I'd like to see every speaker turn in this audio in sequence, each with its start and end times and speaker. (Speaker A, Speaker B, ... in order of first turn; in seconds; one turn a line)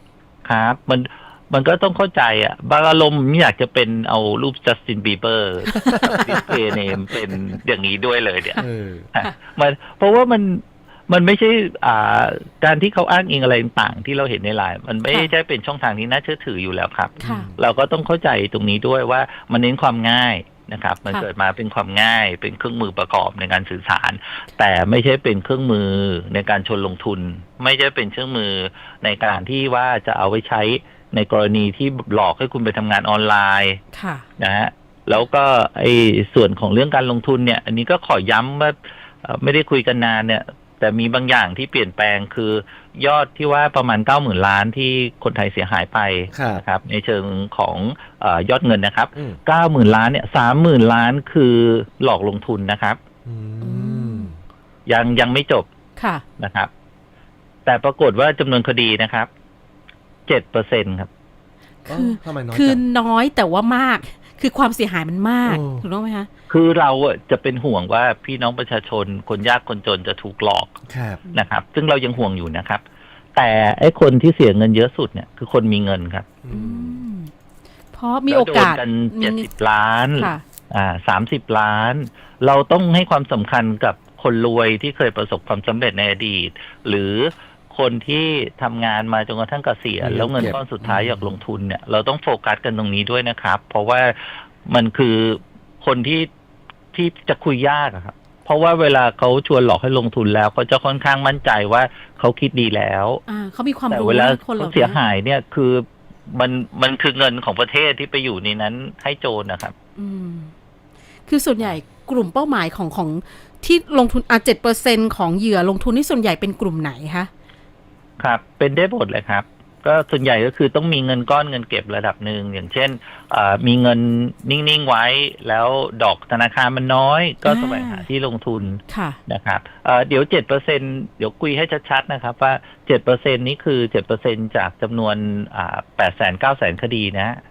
Speaker A: 0.5-8.6
Speaker B: 5.7-6.5
Speaker C: 6.0-6.5
Speaker C: 8.6-9.1
Speaker A: 9.2-33.8
Speaker C: 17.2-17.6
Speaker B: 17.2-17.5
Speaker B: 33.9-34.2
Speaker A: 34.4-53.0
Speaker C: 46.3-46.6
Speaker C: 53.2-54.4
Speaker B: 53.6-54.3
Speaker A: 54.9-55.7
Speaker B: 56.0-56.2
Speaker A: 56.4-56.7
Speaker A: 57.7-59.3
Speaker A: 60.3-61.1
Speaker B: 61.9-66.3
Speaker C: 61.9-62.8
Speaker C: 65.5-65.8
Speaker A: 66.5-70.8
Speaker C: 70.9-71.2
Speaker A: 71.3-72.8
Speaker A: 73.4-76.3
Speaker C: 76.4-77.0
Speaker B: 76.5-77.3
Speaker B: 77.9-79.5
Speaker A: 78.3-96.3
Speaker B: 80.2-80.4
Speaker C: 90.0-91.4
Speaker A: 96.9-103.2
Speaker B: 103.3-105.0
Speaker A: 103.9-109.7
Speaker B: 110.0-110.5
Speaker B: 111.3-117.3
Speaker A: 118.2-137.4
Speaker B: 127.5-128.1
Speaker B: 128.9-129.2